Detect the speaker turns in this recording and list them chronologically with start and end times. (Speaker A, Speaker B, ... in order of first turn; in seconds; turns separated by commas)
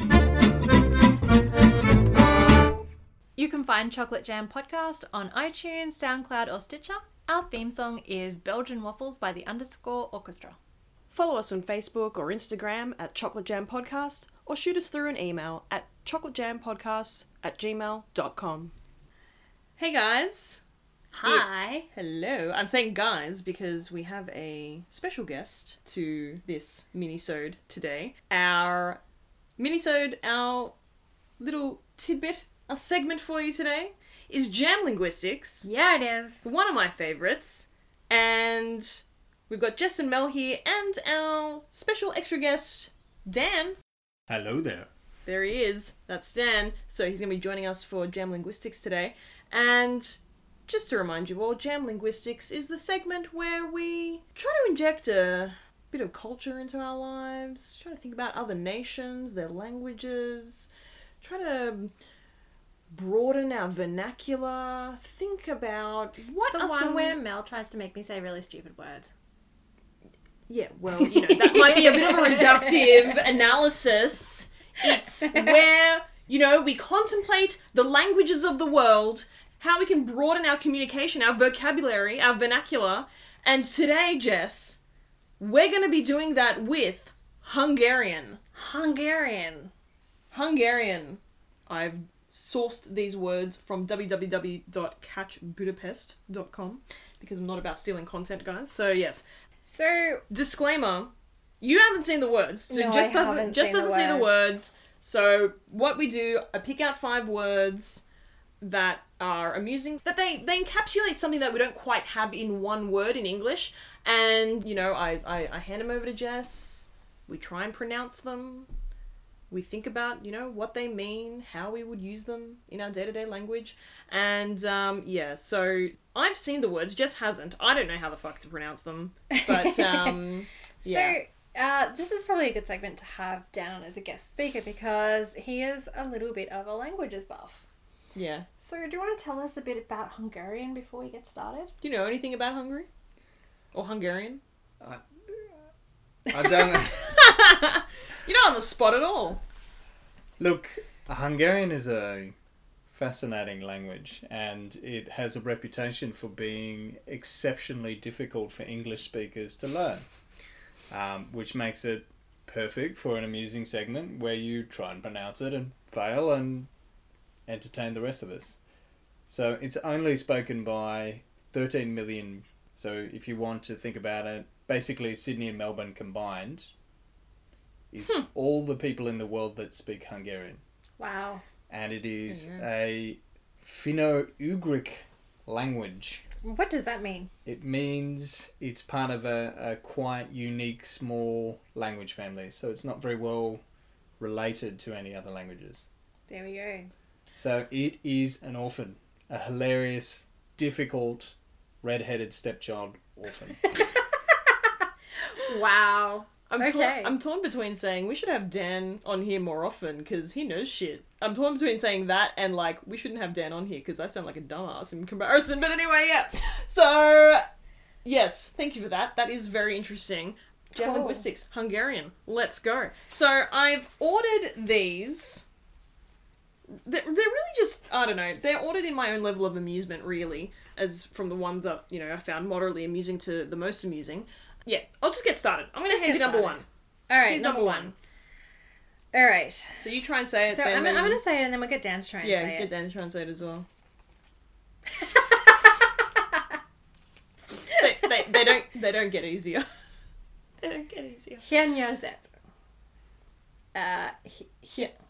Speaker A: 3.4-10.6, Speaker B: 11.1-18.7, Speaker B: 19.8-20.6, Speaker A: 21.1-21.9, Speaker B: 21.2-29.0, Speaker B: 29.6-30.8, Speaker B: 31.4-35.7, Speaker A: 35.6-36.5, Speaker B: 36.4-43.8, Speaker C: 44.3-44.9, Speaker B: 45.3-60.7, Speaker B: 61.2-61.9, Speaker B: 62.9-67.2, Speaker A: 66.4-69.1, Speaker B: 70.5-84.8, Speaker A: 71.1-72.7, Speaker B: 85.4-88.4, Speaker A: 88.5-89.7, Speaker B: 90.3-99.2, Speaker A: 99.7-100.2, Speaker B: 100.3-108.0, Speaker A: 102.7-104.3, Speaker B: 108.6-118.7, Speaker B: 119.5-131.2, Speaker A: 129.3-130.2, Speaker A: 130.8-137.6, Speaker B: 138.2-138.5, Speaker A: 138.6-141.7, Speaker B: 141.8-142.9, Speaker B: 143.7-144.4, Speaker C: 144.8-145.5, Speaker C: 146.3-147.1, Speaker B: 146.4-149.4, Speaker C: 150.4-152.3, Speaker C: 152.9-160.1, Speaker C: 160.9-166.7, Speaker C: 167.5-168.6, Speaker C: 169.3-176.7, Speaker C: 177.9-180.6, Speaker A: 181.0-181.4, Speaker C: 181.7-186.2, Speaker B: 182.3-182.7, Speaker A: 186.4-187.3, Speaker C: 187.4-193.6, Speaker C: 194.2-195.8, Speaker A: 196.3-196.9, Speaker C: 197.3-203.6, Speaker A: 205.4-207.2, Speaker B: 206.5-217.4, Speaker B: 218.0-225.5, Speaker A: 220.8-221.3, Speaker B: 226.7-236.7, Speaker A: 235.9-237.9, Speaker B: 237.3-237.9, Speaker A: 239.1-239.8, Speaker B: 239.8-241.2, Speaker A: 240.5-242.7, Speaker B: 242.2-243.7, Speaker A: 245.0-245.5, Speaker B: 247.8-249.7, Speaker B: 250.6-251.4, Speaker A: 251.4-252.3, Speaker A: 253.7-254.9